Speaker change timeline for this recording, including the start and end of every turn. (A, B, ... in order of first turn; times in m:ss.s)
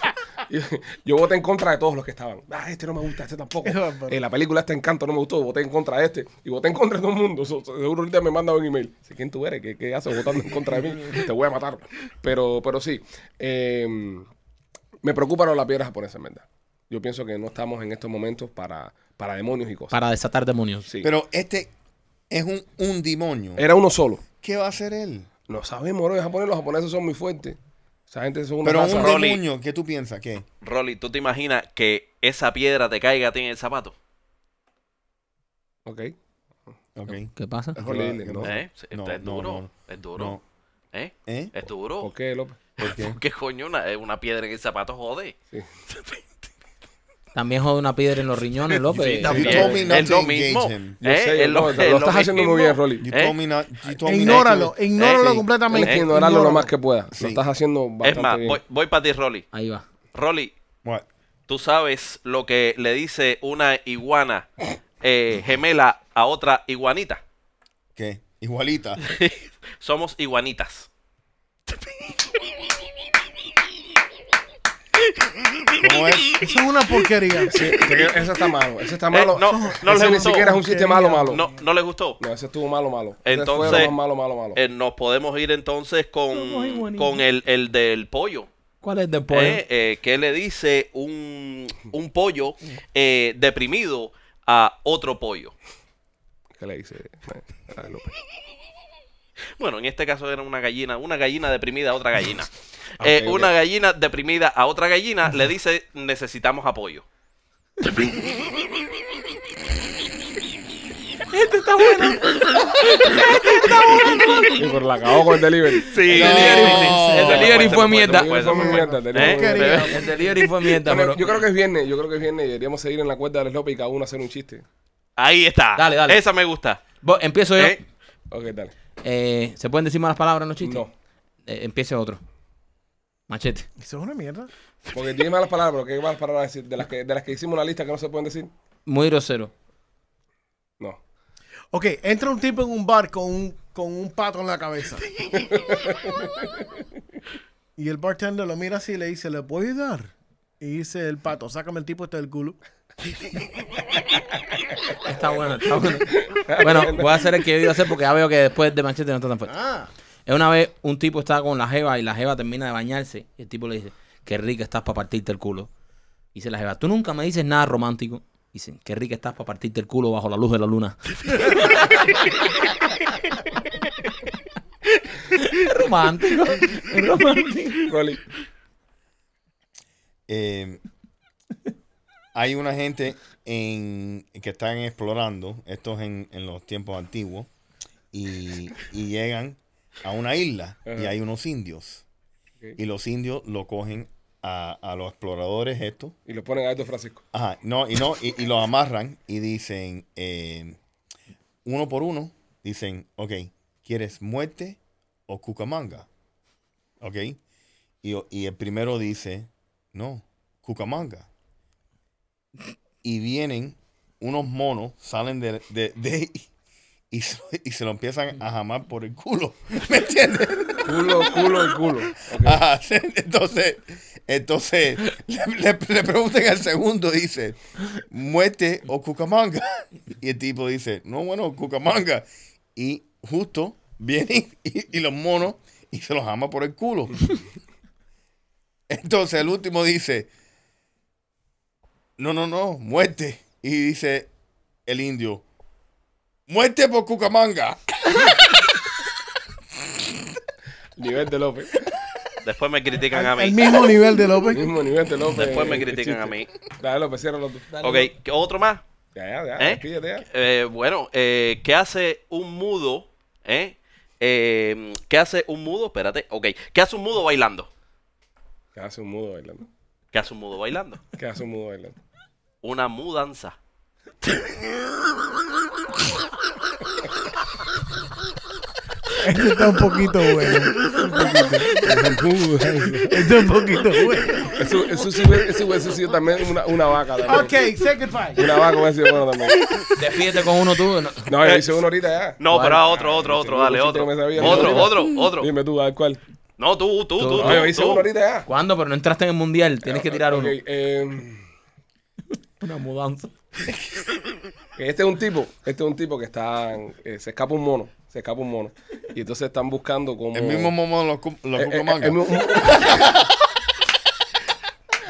0:00.5-0:14.3 A
0:03.6-0:04.2 B
0:15.0-0:20.0 A
0:19.9-0:20.9 C
0:21.0-0:21.7 D
0:22.3-0:23.6 D
0:23.6-0:24.2 A
0:24.4-0:25.3 D
0:25.5-0:27.6 A
0:28.1-0:29.1 A
0:28.6-0:30.5 D
0:28.9-0:29.4 E
0:30.6-0:34.0 E
0:35.9-0:36.1 A
0:37.0-0:40.4 D
0:37.1-0:37.8 C
0:37.8-0:38.5 A
0:38.4-0:40.4 E
0:40.9-0:42.1 E
0:41.3-0:41.5 D
0:42.0-0:42.6 A
0:42.8-0:45.3 E
0:42.8-0:43.2 D
0:47.3-0:49.8 C
0:48.9-0:53.4 E
0:49.3-0:51.0 D
0:49.3-0:49.8 A
0:51.0-0:53.0 A
0:53.0-0:54.8 D
0:54.0-0:56.7 B
0:54.2-0:56.0 E
0:55.6-0:58.6 A
0:57.1-0:57.4 D
0:58.0-0:59.5 E
0:59.5-0:59.8 C
1:00.1-1:00.5 E
1:01.5-1:04.5 E
1:05.0-1:07.2 E
1:08.0-1:09.0 D
1:09.0-1:10.9 E
1:15.8-1:16.4 D
1:16.4-1:17.5 B
1:17.5-1:21.4 A
1:19.1-1:20.6 E
1:19.4-1:21.4 B
1:21.3-1:22.2 E
1:22.2-1:24.6 A
1:23.2-1:24.0 E
1:24.6-1:28.5 E
1:26.3-1:27.2 C
1:28.8-1:29.6 C
1:29.3-1:35.5 E
1:36.6-1:38.2 A
1:39.6-1:47.0 E
1:43.0-1:43.5 A
1:51.3-1:54.6 C
1:54.6-1:59.8 A
1:55.9-2:00.0 E
1:56.0-1:58.8 C
1:56.1-1:57.6 D
1:58.5-2:00.3 B
1:59.7-2:01.3 C
2:00.8-2:04.6 A
2:05.2-2:06.8 E
2:05.8-2:06.2 C
2:07.0-2:07.8 C
2:08.3-2:08.7 A
2:09.0-2:10.8 C
2:10.6-2:10.9 A
2:11.5-2:12.2 C
2:13.3-2:13.7 C
2:13.8-2:14.5 B
2:14.9-2:18.5 A
2:18.9-2:19.5 C
2:21.7-2:25.1 B
2:25.3-2:26.3 A
2:27.8-2:32.6 B
2:35.0-2:39.6 C
2:36.1-2:37.4 A
2:39.6-2:39.9 B
2:40.3-2:45.7 C
2:46.3-2:52.0 C
2:55.3-2:57.9 C
2:57.9-2:58.2 A
3:00.3-3:00.8 D
3:02.3-3:07.5 D
3:08.1-3:12.0 D
3:10.9-3:11.1 A
3:12.8-3:16.2 D
3:16.3-3:17.2 A
3:17.3-3:20.8 D
3:21.6-3:26.1 D
3:27.0-3:27.4 D
3:28.0-3:31.3 D
3:33.0-3:36.5 D
3:37.1-3:41.6 D
3:40.8-3:42.6 A
3:42.4-3:57.3 D
3:58.9-4:00.3 D
4:02.2-4:04.3 D
4:04.9-4:05.4 D
4:06.5-4:08.5 D
4:11.0-4:11.9 A
4:12.4-4:14.0 E
4:13.1-4:14.7 B
4:14.5-4:17.7 A
4:15.3-4:16.5 E
4:17.7-4:18.1 C
4:17.8-4:18.8 E
4:19.2-4:20.2 A
4:19.6-4:27.7 E
4:28.8-4:29.7 A
4:30.1-4:31.0 E
4:31.2-4:32.0 A
4:32.6-4:33.6 E
4:39.2-4:42.1 B
4:41.7-4:43.2 A
4:42.8-4:44.6 B
4:44.6-4:47.6 A
4:47.3-4:48.6 B
4:48.4-4:49.6 A
4:50.0-4:51.3 C
4:51.3-4:56.2 A
4:51.4-4:51.7 E
4:52.4-4:55.5 E
4:52.5-4:52.8 C
4:54.4-4:54.9 C
4:56.6-4:58.1 E
4:57.2-4:57.7 C
4:57.4-4:58.5 A
4:58.5-5:00.6 C
4:59.8-5:01.4 A
5:02.6-5:03.3 C
5:04.8-5:10.7 A
5:10.3-5:12.2 D
5:11.6-5:13.2 A